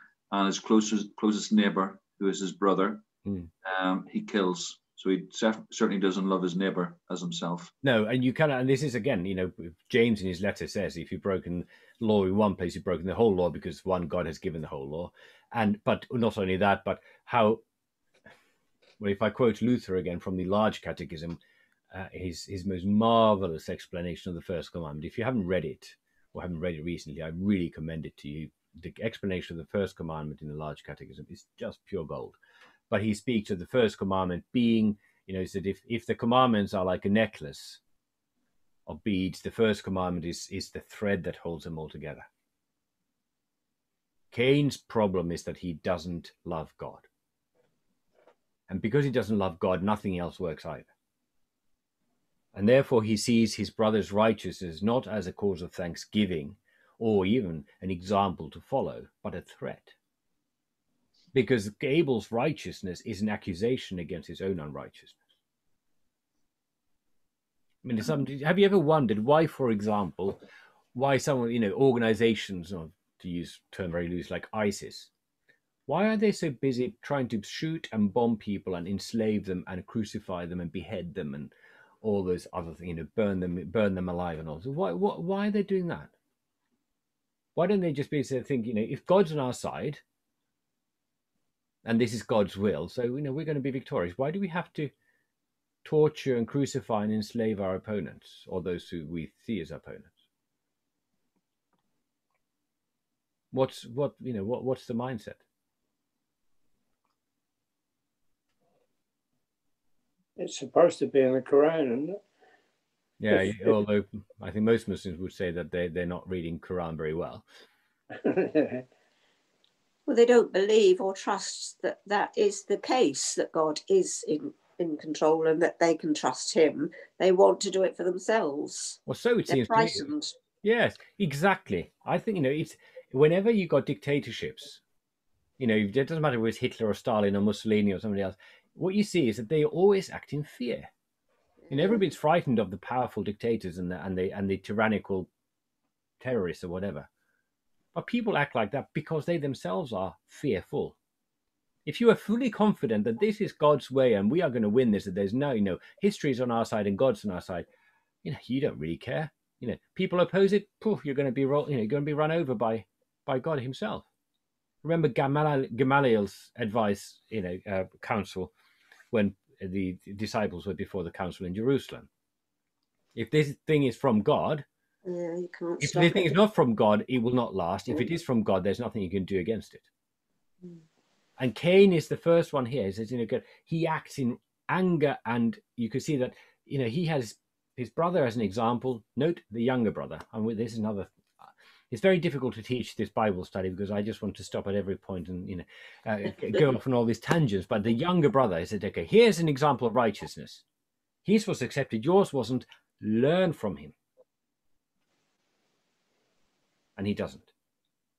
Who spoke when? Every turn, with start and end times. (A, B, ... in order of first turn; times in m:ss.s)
0:00.3-0:03.0 A
0:03.2-0:03.5 B
0:03.6-0:07.7 A
0:07.8-0:17.6 B
0:19.0-0:21.4 B
0:21.9-0:32.4 B
0:32.9-0:37.8 B
0:38.9-0:42.3 B
0:44.3-0:47.1 B
0:48.7-0:50.9 B
0:52.5-0:59.9 B
1:01.3-1:05.2 B
1:07.8-1:10.4 B
1:10.9-1:15.1 B
1:15.9-1:26.1 B
1:27.6-1:30.0 B
1:31.8-1:34.9 B
1:35.8-1:40.1 B
1:43.5-1:45.4 B
1:50.4-1:52.2 C
1:53.2-1:57.4 B
1:58.2-1:58.9 C
2:00.1-2:10.4 D
2:09.0-2:14.8 B
2:15.6-2:20.9 B
2:21.6-2:22.0 D
2:21.7-2:25.3 B
2:26.2-2:27.1 B
2:27.9-2:31.0 B
2:31.8-2:37.7 B
2:38.2-2:44.1 B
2:44.8-2:48.5 B
2:49.1-2:52.1 B
2:53.1-2:54.6 B
2:55.0-2:56.3 D
2:55.8-2:59.9 B
3:01.4-3:11.1 B
3:11.9-3:20.6 B
3:21.2-3:23.9 B
3:27.0-3:27.5 B